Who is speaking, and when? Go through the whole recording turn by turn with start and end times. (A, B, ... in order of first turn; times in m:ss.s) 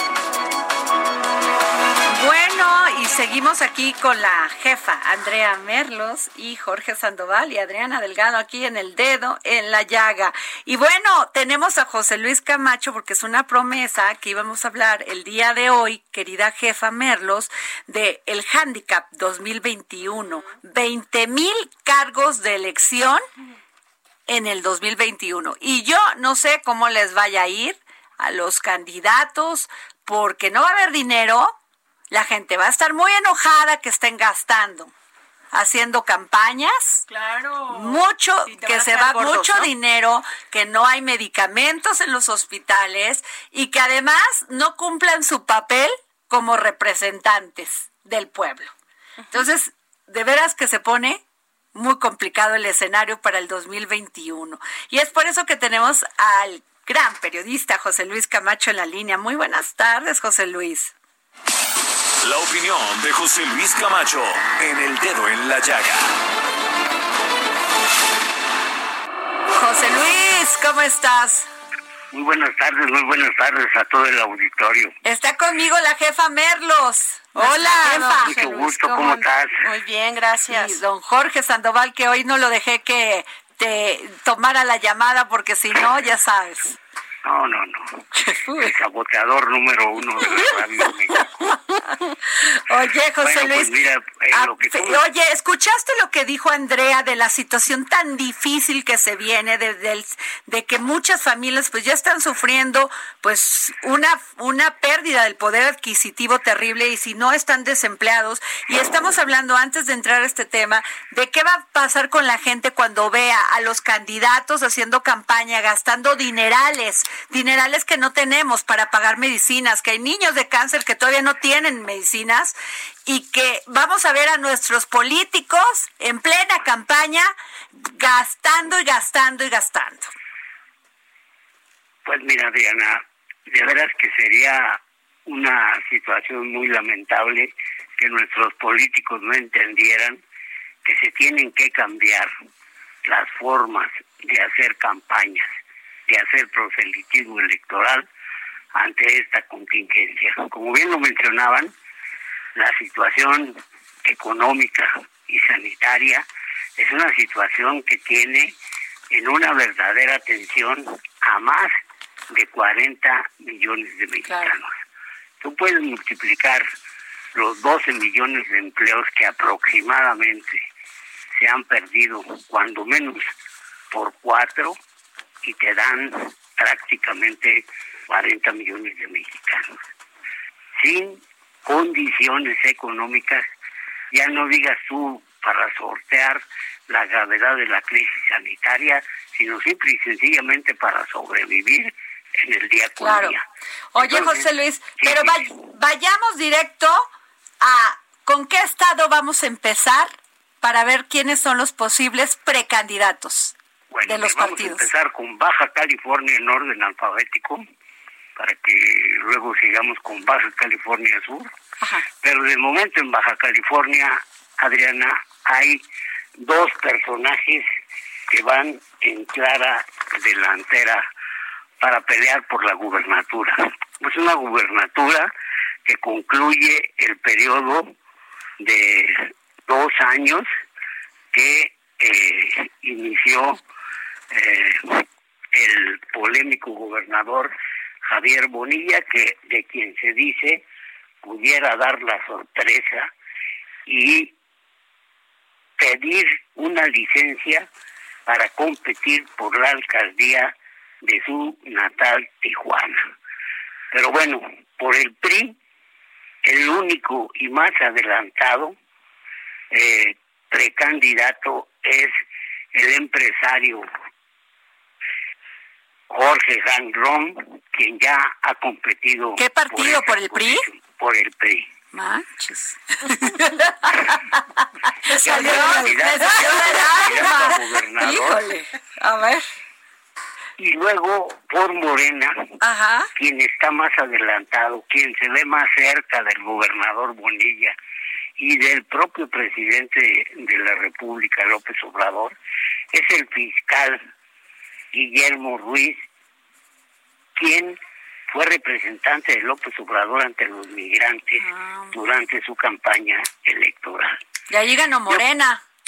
0:02.1-0:23.2 A
0:24.3-0:31.6 A
0:32.1-0:34.9 A
0:35.5-0:37.1 A
0:37.1-0:39.7 B
0:37.7-0:48.7 A
0:49.3-0:51.2 A
0:51.7-1:00.9 A
1:02.2-1:06.1 C
1:09.6-1:11.5 A
1:12.1-1:14.9 D
1:15.0-1:18.3 A
1:17.4-1:20.8 B
1:18.1-1:19.6 D
1:20.5-1:26.7 A
1:27.2-1:31.6 D
1:28.1-1:28.7 A
1:31.1-1:33.7 A
1:33.2-1:35.0 D
1:34.3-2:10.1 A
2:12.1-2:20.2 D
2:20.8-2:22.3 D
2:23.0-2:25.5 D
2:26.1-2:28.1 D
2:28.7-2:31.7 D
2:32.6-2:36.2 D
2:36.8-2:38.5 D
2:39.1-2:41.7 D
2:42.3-2:44.8 D
2:44.3-2:44.5 A
2:45.4-2:46.7 D
2:47.3-2:50.6 D
2:51.4-2:53.3 D
2:53.9-2:54.8 D
2:55.4-2:59.7 D
3:00.8-3:03.4 D
3:04.1-3:13.4 D
3:13.0-3:13.4 A
3:13.9-3:17.1 A
3:14.0-3:15.6 D
3:17.6-3:23.5 A
3:23.9-3:27.6 D
3:24.1-3:24.9 A
3:28.4-3:31.5 D
3:32.2-3:35.8 D
3:36.4-3:37.7 D
3:38.3-3:41.0 D
3:41.8-3:45.3 D
3:45.9-3:47.9 D
3:48.6-3:50.5 D
3:51.3-3:53.6 D
3:54.3-3:57.5 D
3:58.0-4:00.6 D
4:01.2-4:03.1 D
4:03.9-4:04.3 D
4:05.8-4:07.7 D
4:08.3-4:13.1 D
4:13.9-4:15.6 D
4:16.4-4:18.8 D
4:19.7-4:22.1 D
4:22.7-4:23.9 D
4:26.1-4:31.7 D
4:29.4-4:30.6 A
4:31.9-4:34.4 A
4:35.0-4:39.4 A
4:35.1-4:38.4 D
4:40.6-4:42.6 D
4:42.6-4:43.1 A
4:43.2-4:47.7 D
4:48.4-4:52.3 D
4:52.9-4:54.0 D
4:54.9-4:56.0 D
4:57.4-4:57.8 D
4:58.3-5:04.2 D
5:01.4-5:02.0 A
5:04.5-5:05.6 A